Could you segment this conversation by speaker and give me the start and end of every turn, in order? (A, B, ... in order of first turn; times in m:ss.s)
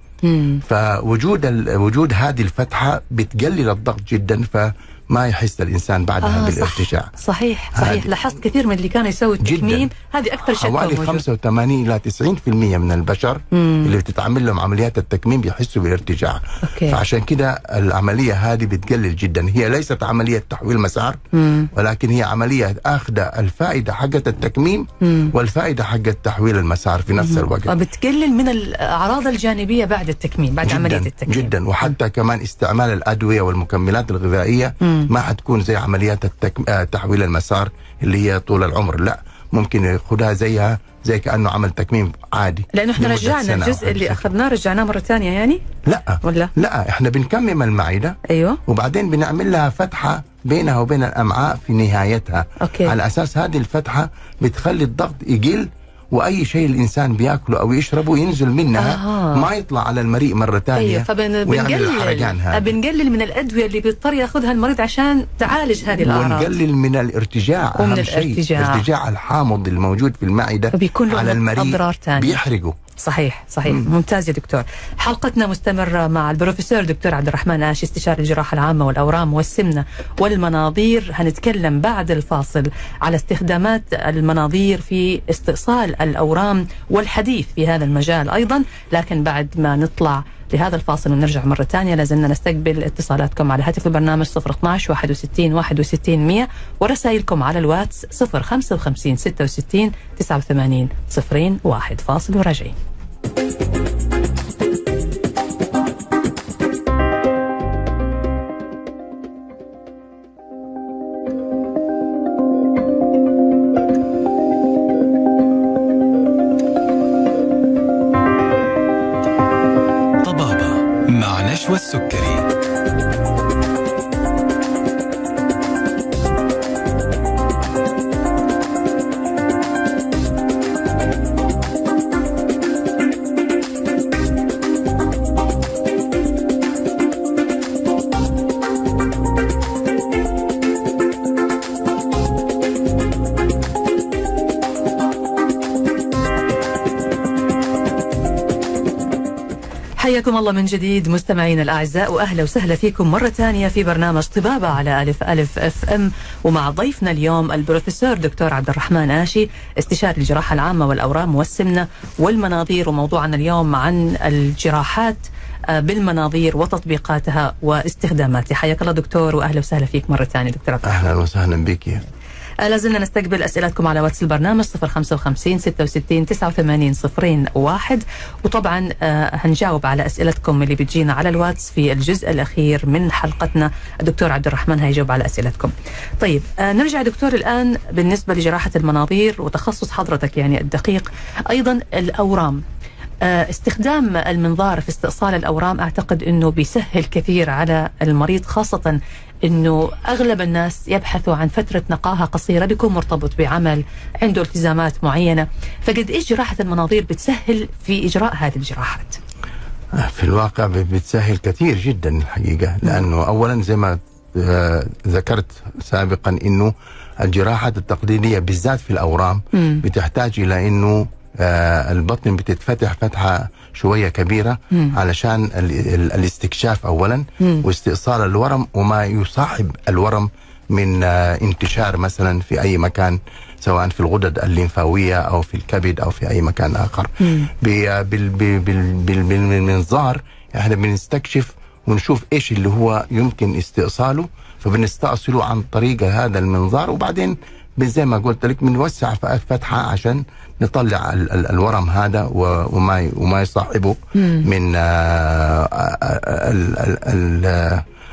0:00.2-0:00.6 A
0:00.6-0:07.1 B
0:06.2-0:11.2 A
0:07.7-0:08.1 B
0:09.4-0:09.9 B
0:10.4-0:21.2 B
0:13.5-0:13.9 A
0:16.6-0:17.0 A
0:21.3-0:21.7 A
0:21.7-0:27.7 B
0:25.0-0:25.3 A
0:27.2-0:31.9 A
0:30.6-0:44.3 B
0:34.8-0:35.1 A
0:42.7-0:45.6 A
0:45.8-1:02.7 B
0:46.2-0:46.5 A
0:48.3-0:48.6 A
0:52.6-0:52.9 A
0:58.8-0:59.5 A
1:00.8-1:06.5 A
1:05.9-1:12.8 B
1:07.8-1:08.8 A
1:10.7-1:12.4 A
1:13.0-1:42.7 A
2:00.2-2:02.4 C
2:30.0-2:51.0 A
2:50.8-2:52.0 B
2:52.6-3:12.6 A
3:13.2-3:29.2 A
3:29.9-4:17.8 B
3:39.5-3:39.8 A
3:57.2-3:57.5 A
4:14.1-4:14.5 A